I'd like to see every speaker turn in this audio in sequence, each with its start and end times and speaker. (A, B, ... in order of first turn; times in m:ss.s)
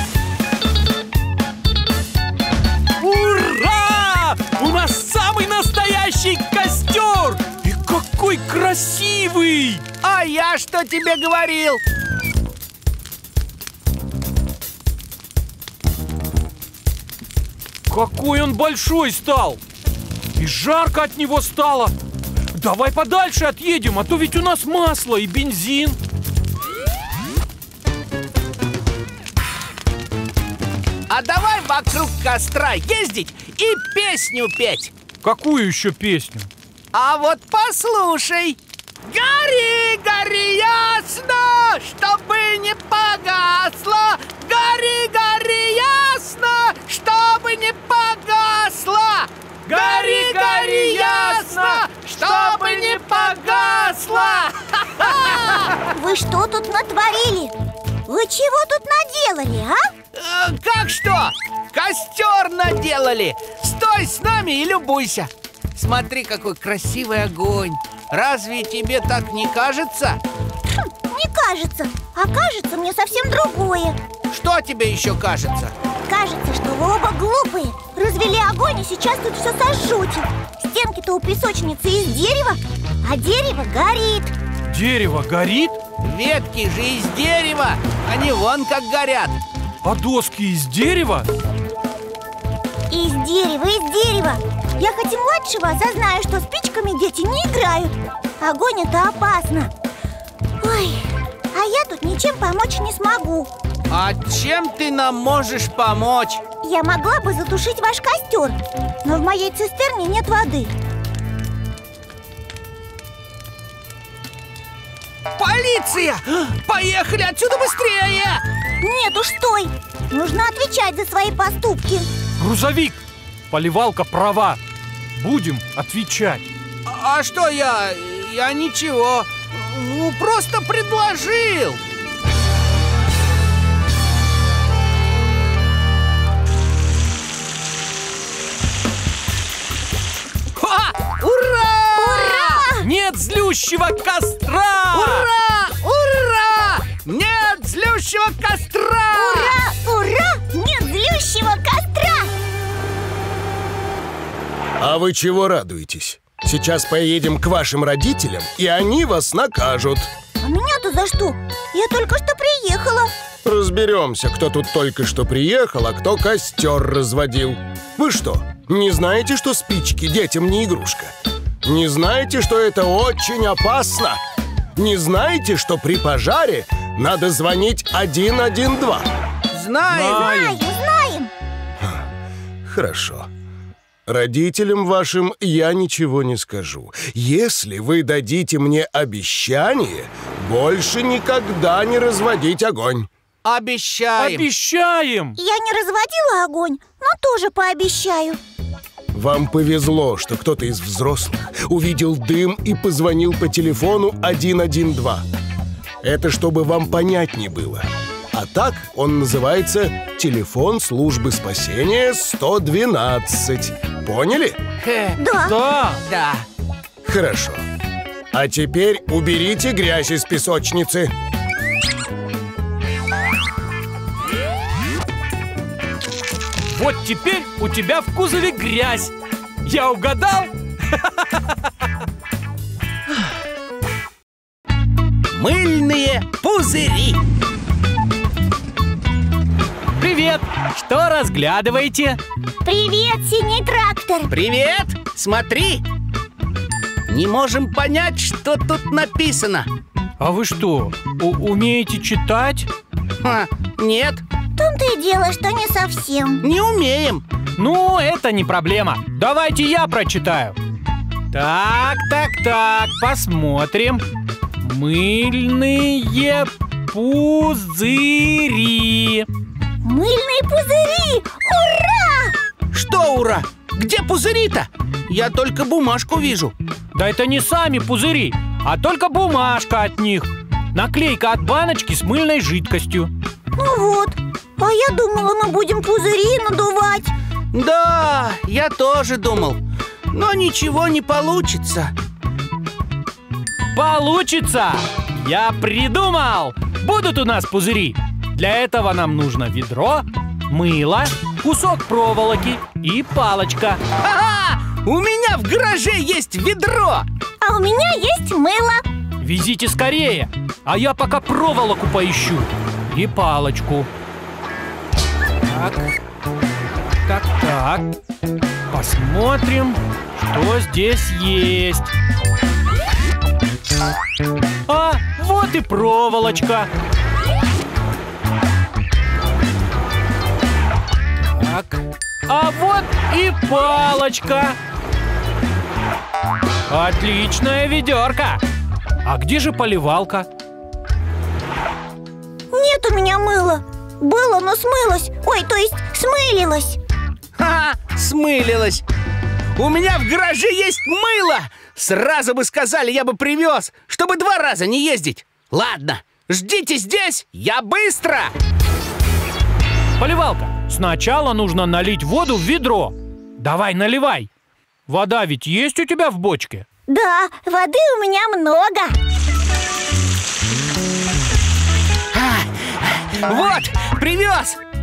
0:03.0-0:09.8 A
0:10.0-0:11.8 B
0:17.9-0:19.6 A
0:20.4-0:21.9 A
0:22.5-0:26.0 A
0:31.1-0:34.9 B
0:35.2-0:36.5 A
0:36.9-0:55.8 B
0:49.6-0:53.9 A
0:55.9-0:57.5 C
0:58.1-0:59.9 C
1:00.1-1:10.2 B
1:10.8-1:14.0 C
1:14.3-1:15.7 B
1:16.1-1:24.3 C
1:24.7-1:25.8 A
1:26.0-1:29.4 B
1:29.8-1:31.3 A
1:32.9-1:39.7 C
1:40.6-1:43.5 C
1:43.9-1:46.4 B
1:46.6-1:50.7 C
1:55.4-1:58.4 B
1:58.8-2:02.1 C
2:02.4-2:03.0 A
2:03.5-2:04.6 A
2:05.1-2:06.5 A
2:06.8-2:11.8 B
2:20.6-2:22.6 B
2:22.0-2:22.9 C
2:22.8-2:25.3 A
2:24.9-2:29.6 B
2:29.1-2:32.3 C
2:34.8-2:40.1 D
2:40.4-2:43.1 C
2:43.4-2:51.1 D
2:51.6-2:54.2 D
2:54.8-2:59.1 D
2:59.5-3:00.5 B
2:59.9-3:01.3 C
3:00.0-3:00.3 A
3:02.6-3:03.3 D
3:04.1-3:13.1 D
3:13.4-3:14.5 B
3:14.2-3:15.4 A
3:15.4-3:18.4 C
3:19.1-3:25.2 D
3:26.0-3:34.6 D
3:34.8-3:35.2 B
3:35.2-3:35.6 C
3:35.5-3:36.0 A
3:35.8-3:36.4 B
3:37.0-3:37.6 D
3:38.3-3:41.1 D
3:46.7-3:49.1 A
3:49.6-3:51.2 A
3:55.3-3:57.2 B
4:00.0-4:02.2 A
4:02.6-4:04.3 C
4:04.3-4:05.8 B
4:07.1-4:09.7 B
4:10.2-4:12.7 A
4:13.2-4:14.2 B
4:14.6-4:16.4 C
4:16.4-4:17.2 B
4:17.6-4:20.6 A
4:21.3-4:24.0 A
4:24.6-4:29.3 A
4:29.8-4:32.3 C
4:32.7-4:36.5 B
4:36.9-4:43.1 A
4:43.6-4:47.1 C
4:47.5-4:51.9 B
4:53.7-5:03.8 A
5:04.0-5:07.0 B
5:07.4-5:08.8 C
5:09.2-5:13.9 A
5:15.4-5:15.9 A
5:17.0-5:18.0 A
5:18.7-5:21.9 A
5:24.7-5:26.7 A
5:31.3-5:34.6 A
5:36.7-5:38.4 A
5:39.0-5:40.3 A
5:42.5-5:46.8 C
5:47.4-5:48.8 B
5:49.6-5:58.3 B
6:00.0-6:04.3 A
6:04.9-6:06.6 A
6:06.9-6:09.0 C
6:12.1-6:14.6 B